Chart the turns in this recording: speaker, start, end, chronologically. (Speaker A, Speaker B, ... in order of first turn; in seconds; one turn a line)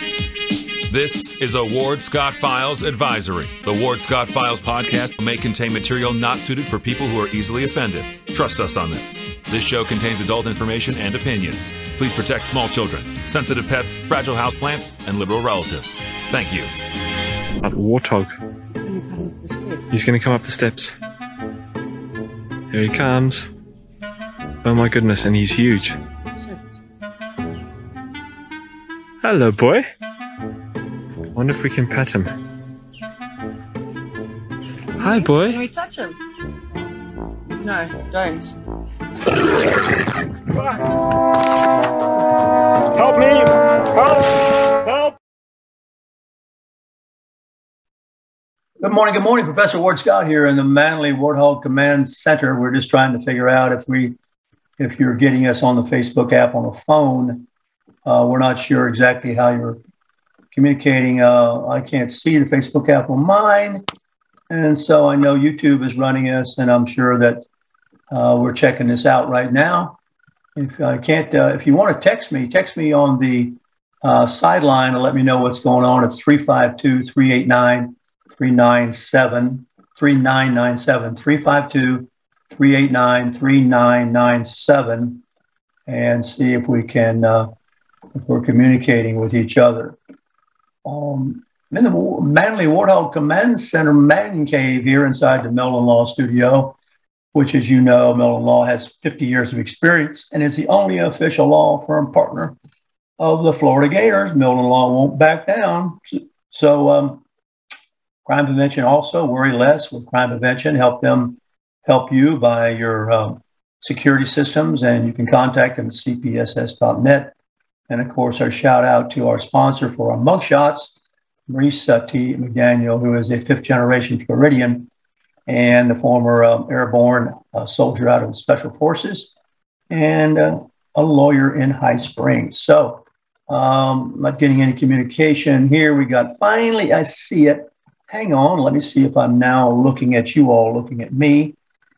Speaker A: 0.9-16.7
Speaker B: 17.6-18.4
Speaker C: 18.8-19.9
Speaker B: 19.9-20.9
Speaker B: 22.7-23.5
Speaker B: 24.6-26.0
Speaker B: 29.2-29.9
Speaker B: 31.3-32.4
Speaker B: 35.0-35.6
Speaker C: 35.0-36.2
Speaker C: 37.5-38.5
Speaker B: 40.5-40.8
Speaker B: 42.9-45.1
Speaker D: 48.8-54.1
Speaker D: 54.8-57.5
Speaker D: 58.0-59.8
Speaker D: 60.5-63.8
Speaker D: 64.5-67.4
Speaker D: 68.1-70.0
Speaker D: 70.5-85.2
Speaker D: 85.9-87.5
Speaker D: 88.1-90.0
Speaker D: 90.8-96.8
Speaker D: 97.3-102.5
Speaker D: 103.2-107.2
Speaker D: 108.2-117.3
Speaker D: 117.9-120.9
Speaker D: 121.5-124.9
Speaker D: 125.5-129.3
Speaker D: 129.9-141.6